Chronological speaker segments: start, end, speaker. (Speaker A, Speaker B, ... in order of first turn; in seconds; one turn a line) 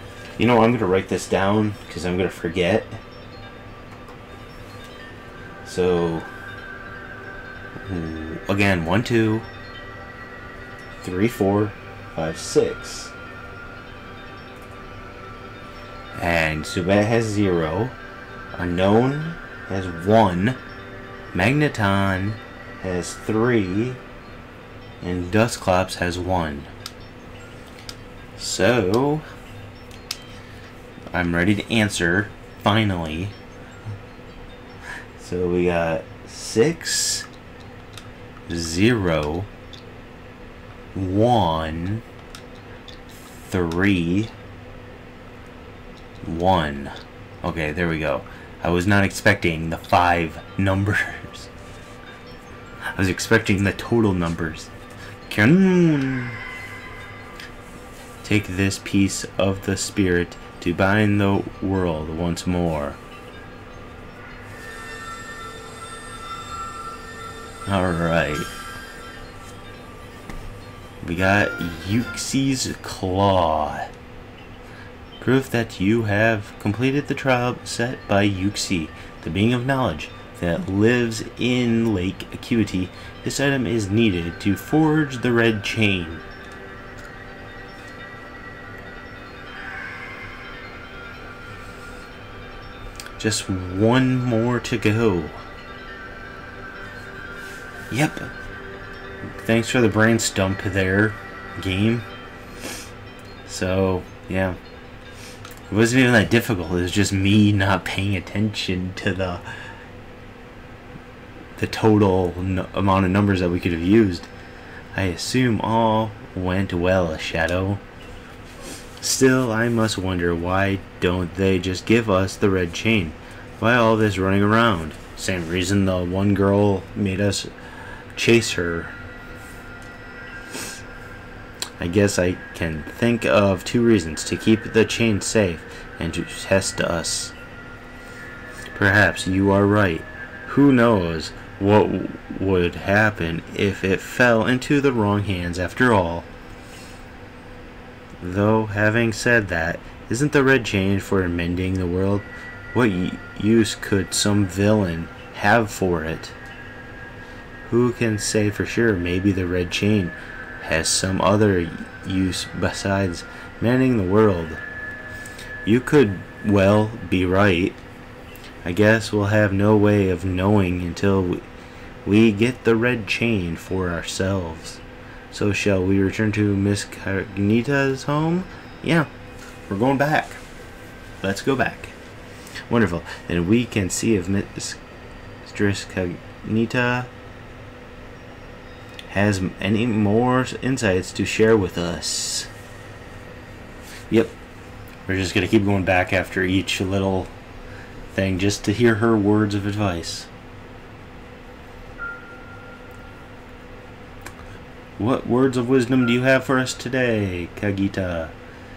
Speaker A: 0.4-3.0
Speaker A: 5.6-6.3
Speaker A: 7.8-9.5
Speaker A: 11.0-13.1
Speaker A: 16.1-17.9
Speaker A: 18.5-20.6
Speaker A: 21.3-24.0
Speaker A: 25.0-26.7
Speaker A: 28.4-29.2
Speaker A: 31.1-33.4
Speaker A: 35.2-37.3
Speaker A: 38.5-39.5
Speaker A: 40.9-42.0
Speaker A: 43.4-44.3
Speaker A: 46.2-51.5
Speaker A: 52.9-54.7
Speaker A: 55.3-56.4
Speaker A: 58.2-63.0
Speaker A: 67.7-68.5
Speaker A: 71.0-73.9
Speaker A: 75.2-86.2
Speaker A: 93.2-95.4
Speaker A: 97.9-98.3
Speaker A: 99.4-102.1
Speaker A: 103.5-104.6
Speaker A: 105.7-109.7
Speaker A: 111.5-114.3
Speaker A: 114.9-117.8
Speaker A: 119.0-127.5
Speaker A: 128.1-128.9
Speaker A: 131.8-137.3
Speaker A: 138.7-146.3
Speaker A: 148.2-156.3
Speaker A: 157.6-164.6
Speaker A: 165.6-167.8
Speaker A: 168.6-171.4
Speaker A: 172.0-179.1
Speaker A: 179.7-180.4
Speaker A: 181.2-182.0
Speaker A: 182.7-184.8
Speaker A: 185.4-187.1
Speaker A: 189.1-192.5
Speaker A: 194.1-194.3
Speaker A: 195.1-197.3
Speaker A: 198.1-200.3
Speaker A: 205.0-208.3